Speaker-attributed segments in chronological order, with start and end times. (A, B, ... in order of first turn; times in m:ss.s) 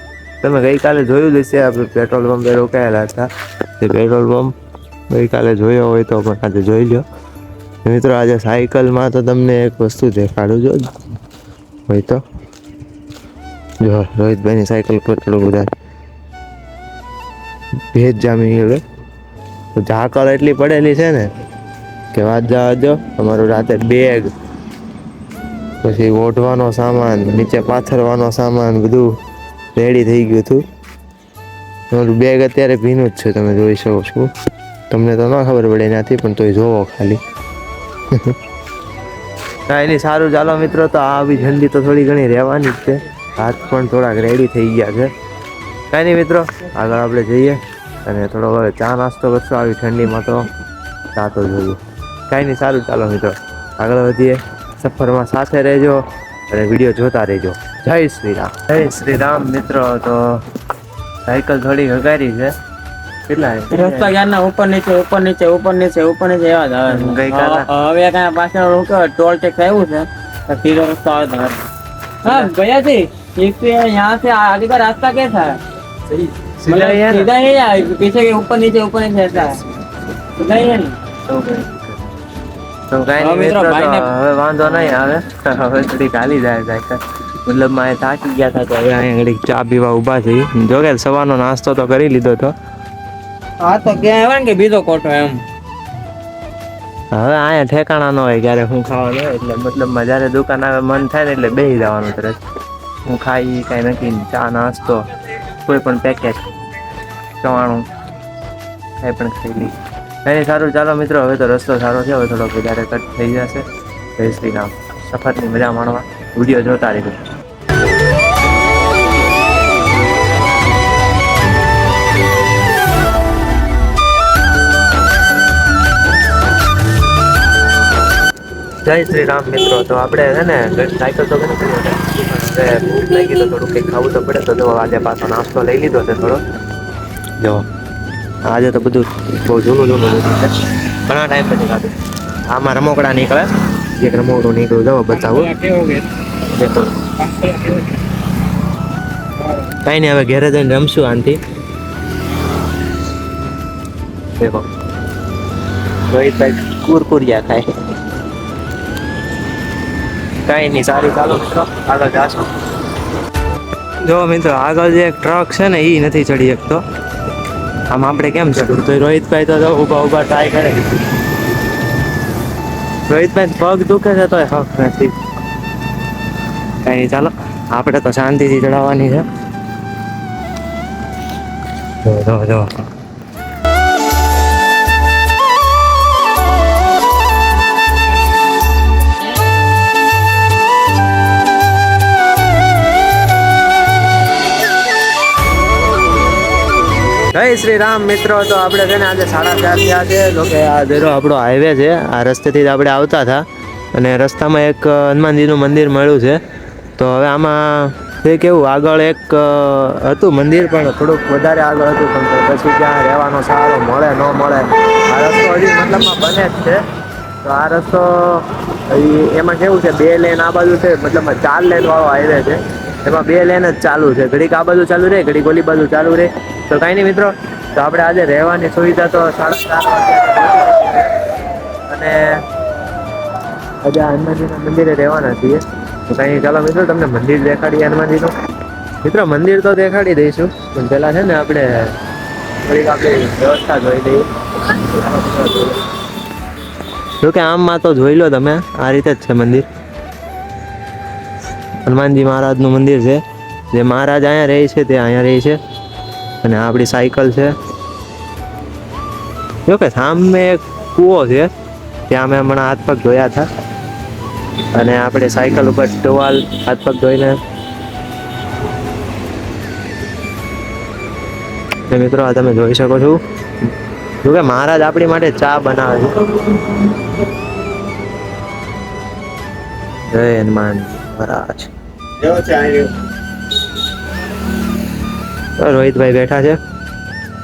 0:00.4-0:03.3 A
0:03.8-0:04.5 A
0:05.1-0:07.0 A
0:07.8-0:10.9 A
0:11.9-0:12.2 A
0:13.8-0:15.7 A
0:17.9-0:18.8 A
0:19.7-0:21.3 A
0:22.1-0:24.3 A
0:25.8-0:29.1 A
0:29.7-0:30.6 A
0:31.9-0:34.3 A
0:34.9-0:37.2 A
0:39.7-0:45.1 A
0:45.9-0:50.4 A
0:51.1-1:00.4 A
1:01.3-1:02.5 A
1:03.3-1:04.1 A
1:03.7-1:11.6 B
1:06.9-1:07.7 A
1:12.2-1:15.6 B
1:16.4-1:17.3 A
1:16.6-1:19.6 B
1:20.3-1:21.0 B
1:21.3-1:22.1 A
1:22.9-1:32.5 A
1:23.2-1:24.1 B
1:24.6-1:25.0 B
1:33.6-1:35.4 B
1:37.1-1:42.4 A
1:43.1-1:45.0 A
1:45.6-1:46.4 A
1:47.4-1:47.8 A
1:49.0-1:53.6 A
1:54.2-1:57.2 A
2:08.8-2:16.4 A
2:17.4-2:17.6 A
2:18.5-2:20.5 A
2:21.1-2:21.9 A
2:22.5-2:25.5 A
2:25.5-2:26.0 B
2:26.4-2:27.1 A
2:27.3-2:27.8 B
2:29.8-2:31.4 A
2:34.4-2:34.7 A
2:36.1-2:37.6 A
2:40.5-2:42.5 A
2:44.0-2:46.8 A
2:47.9-2:50.9 A
2:53.1-2:55.1 A
2:56.8-2:59.2 A
3:02.0-3:02.9 A
3:17.3-3:23.4 A
3:23.9-3:26.4 A
3:27.0-3:36.8 A
3:37.4-3:51.1 A
3:51.9-3:52.3 A
3:53.8-3:58.3 A
3:59.0-4:01.7 A
4:02.6-4:05.9 A
4:07.2-4:09.6 A
4:11.8-4:13.2 A
4:13.7-4:15.6 A
4:16.4-4:17.5 A
4:19.7-4:21.5 A
4:22.1-4:23.5 A
4:24.7-4:27.4 A
4:31.9-4:33.2 A
4:34.2-4:36.3 A
4:40.1-4:41.7 A
4:42.2-4:42.9 A
4:45.6-4:46.6 A